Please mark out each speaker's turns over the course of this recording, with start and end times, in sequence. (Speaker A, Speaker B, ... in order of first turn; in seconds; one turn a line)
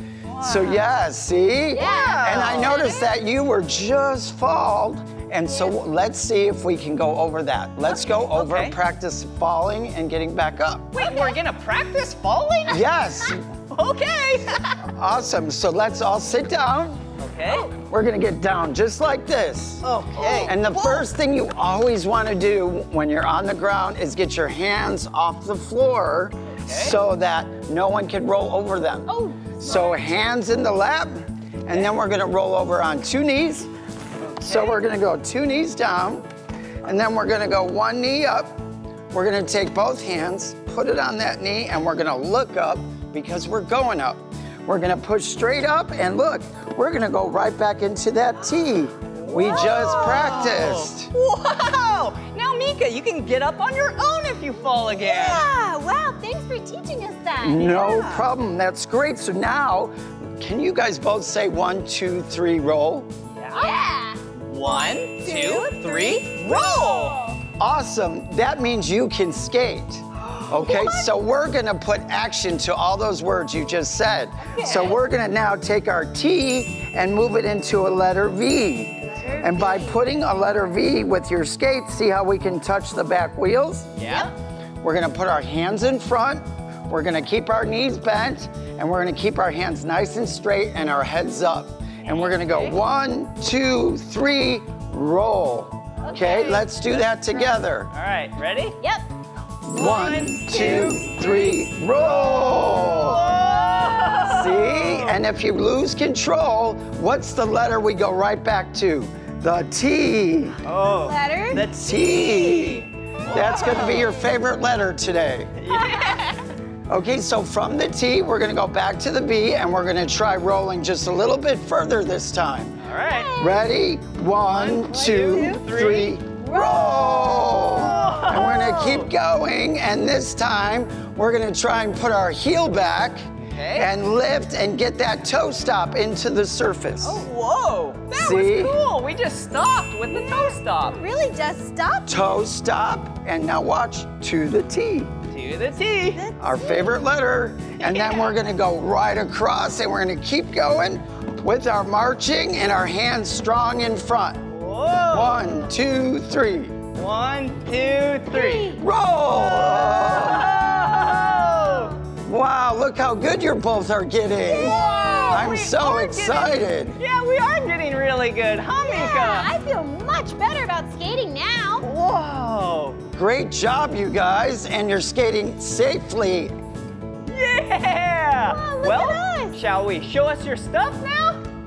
Speaker A: 0.2-0.9
Speaker B: 0.4-11.0
Speaker C: 1.7-3.1
Speaker A: 1.8-2.9
Speaker A: 7.9-8.8
Speaker A: 10.9-12.9
Speaker C: 11.0-11.4
Speaker B: 12.7-13.4
Speaker A: 13.7-14.8
Speaker B: 14.9-17.0
Speaker A: 17.2-17.7
Speaker B: 17.7-33.7
Speaker A: 19.8-20.6
Speaker C: 20.1-21.1
Speaker A: 26.6-27.0
Speaker C: 29.1-30.2
Speaker A: 34.2-34.8
Speaker B: 34.4-36.3
Speaker B: 36.9-38.6
Speaker B: 39.1-51.1
Speaker A: 49.2-55.5
Speaker C: 54.9-57.8
Speaker B: 57.4-63.1
Speaker A: 57.7-58.3
Speaker A: 63.3-63.8
Speaker C: 63.6-67.4
Speaker A: 64.3-67.2
Speaker B: 67.6-84.0
Speaker C: 70.4-71.1
Speaker C: 74.5-74.9
Speaker A: 74.6-74.9
Speaker C: 79.1-80.0
Speaker A: 84.0-84.3
Speaker B: 84.8-97.9
Speaker A: 92.1-92.8
Speaker C: 96.0-96.7
Speaker A: 97.9-98.8
Speaker C: 98.8-99.1
Speaker B: 99.6-103.3
Speaker A: 99.7-105.2
Speaker C: 100.4-101.6
Speaker C: 102.9-104.3
Speaker B: 104.3-110.6
Speaker A: 110.6-114.2
Speaker C: 110.8-111.7
Speaker B: 111.6-115.5
Speaker C: 113.3-114.0
Speaker A: 115.6-116.5
Speaker C: 115.7-116.4
Speaker B: 116.9-122.8
Speaker A: 122.8-123.3
Speaker C: 123.0-123.7
Speaker B: 123.4-137.3
Speaker A: 124.4-126.2
Speaker C: 125.2-125.6
Speaker C: 126.4-127.8
Speaker A: 127.7-129.1
Speaker A: 133.4-133.9
Speaker A: 137.0-141.0
Speaker B: 138.1-138.8
Speaker C: 140.1-142.4
Speaker B: 142.1-145.1
Speaker A: 145.3-146.3
Speaker C: 146.1-147.0
Speaker B: 146.4-154.4
Speaker A: 147.8-148.4
Speaker A: 154.5-155.7
Speaker B: 155.1-156.8
Speaker A: 156.9-161.9
Speaker C: 158.3-158.8
Speaker B: 158.7-160.5
Speaker C: 160.4-161.9
Speaker B: 162.2-167.0
Speaker C: 164.4-165.5
Speaker A: 164.5-169.5
Speaker C: 168.8-171.9
Speaker A: 171.8-173.0
Speaker B: 173.2-176.5
Speaker A: 177.3-181.4
Speaker C: 178.4-179.6